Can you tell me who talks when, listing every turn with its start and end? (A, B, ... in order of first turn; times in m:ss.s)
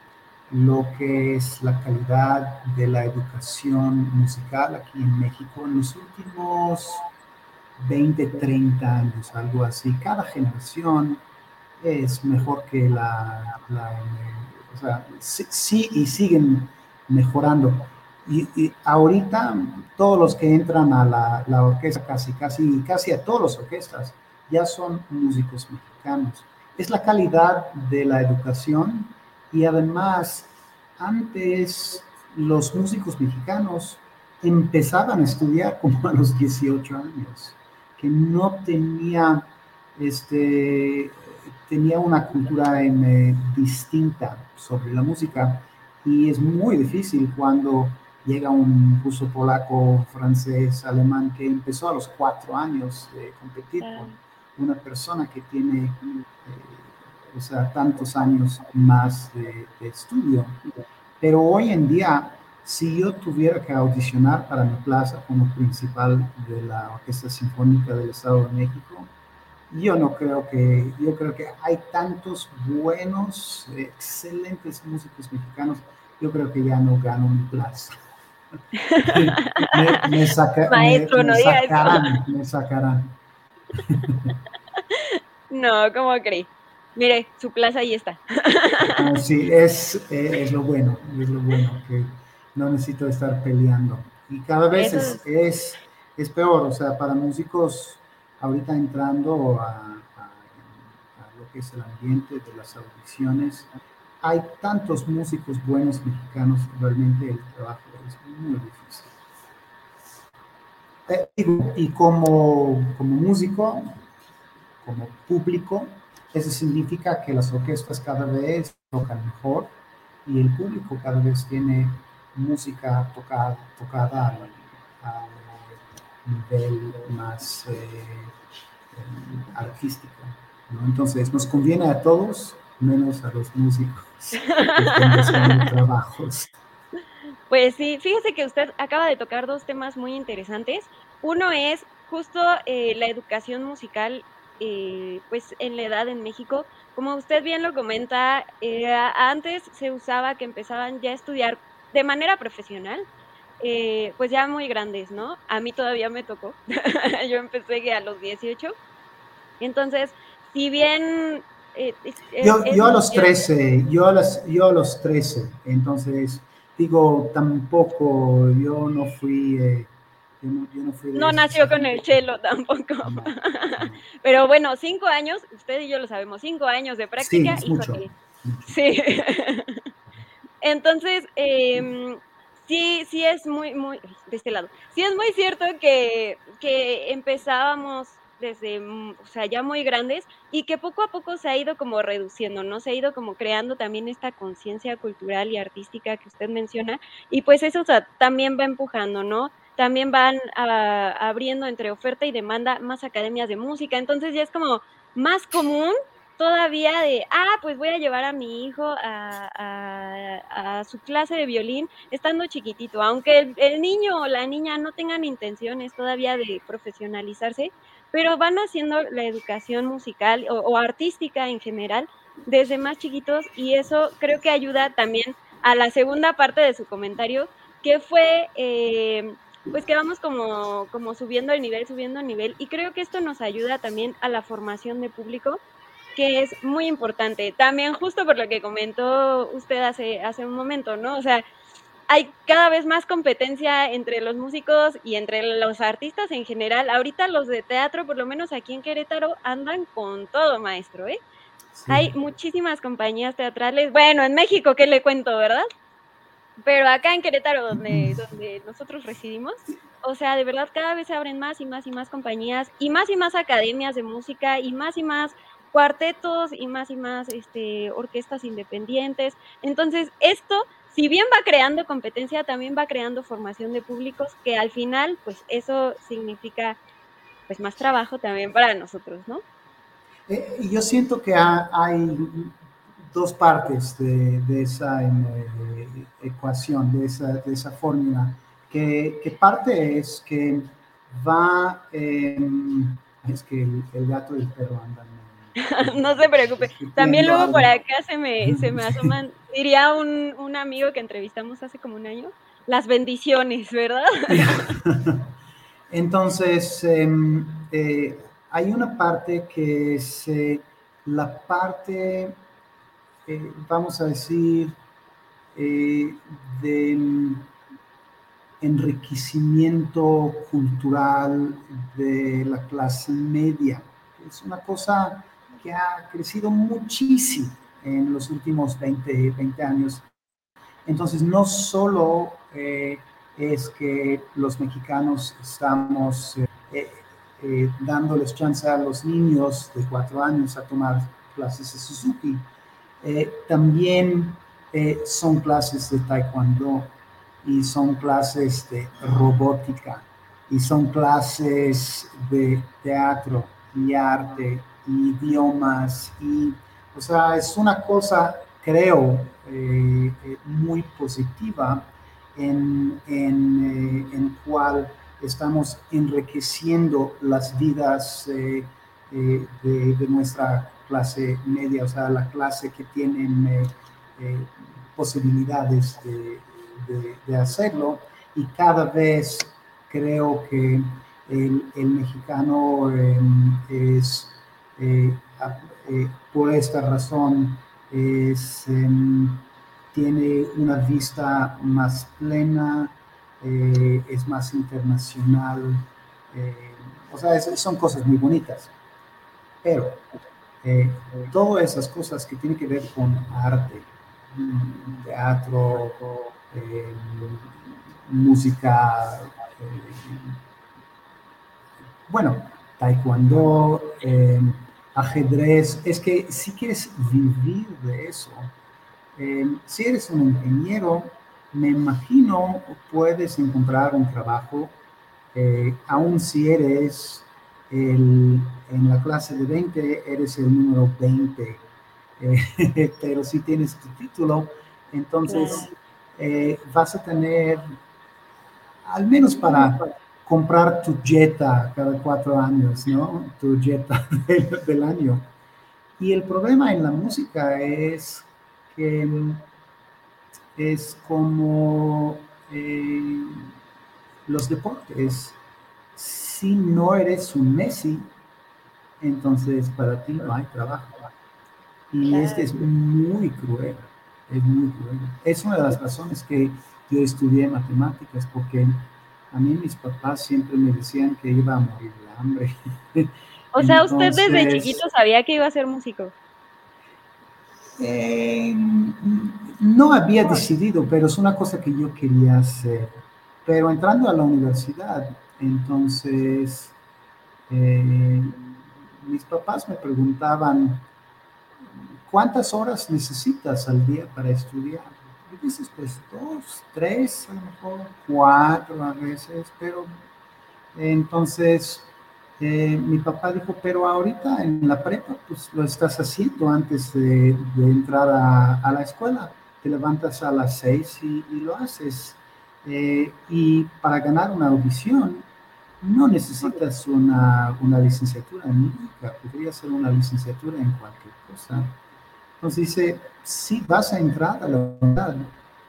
0:00.5-0:07.1 A
0:07.8-0:11.2 A
0:11.8-1:00.6 A
0:53.8-0:54.1 B
1:01.2-1:09.1 A
1:09.7-1:18.0 A
1:18.9-1:20.0 B
1:19.0-1:23.2 A
1:20.7-1:22.1 B
1:23.7-1:24.4 A
1:24.9-1:29.0 B
1:28.9-1:43.7 A
1:34.7-1:35.2 B
1:44.2-1:49.1 A
1:51.1-1:54.0 A
1:54.8-1:59.7 A
2:00.2-2:08.3 A
2:08.9-2:16.5 A
2:14.4-2:15.5 B
2:17.5-2:33.0 B
2:33.6-2:38.7 B
2:39.6-2:43.4 B
2:42.4-2:52.2 A
2:51.1-2:58.1 B
2:53.0-2:54.0 A
2:57.2-2:58.7 A
2:58.6-2:59.8 B
3:00.6-3:55.6 B
3:56.2-4:01.4 B
4:02.1-4:11.2 B
4:11.7-4:12.1 A
4:11.9-4:15.7 B
4:16.6-4:36.8 B
4:17.8-4:18.2 A
4:37.5-4:39.4 B
4:40.3-4:57.7 A
4:55.6-5:04.4 B
4:58.4-4:59.2 A
5:04.3-5:05.3 A
5:05.9-5:12.4 A
5:13.2-5:14.8 A
5:15.5-5:17.5 A
5:18.6-5:30.0 A
5:30.8-5:42.4 A
5:43.0-6:38.7 A
6:39.6-6:40.0 A
6:40.6-6:50.4 A
6:52.1-6:58.5 A
6:59.2-7:04.7 A
7:05.3-7:11.6 A
7:12.2-7:17.8 A
7:15.3-7:15.7 B
7:18.8-7:25.3 A
7:26.0-7:29.4 A
7:30.5-7:33.5 A
7:34.2-7:35.4 A
7:35.9-7:38.0 A
7:39.0-7:41.1 A
7:41.9-7:54.8 A
7:42.1-7:42.5 B
7:53.5-7:56.1 B
7:57.8-8:02.9 A
8:03.4-8:06.7 A
8:07.5-8:10.8 A
8:11.7-8:19.9 A
8:20.7-8:35.2 A
8:35.8-8:41.8 A
8:42.4-8:45.3 A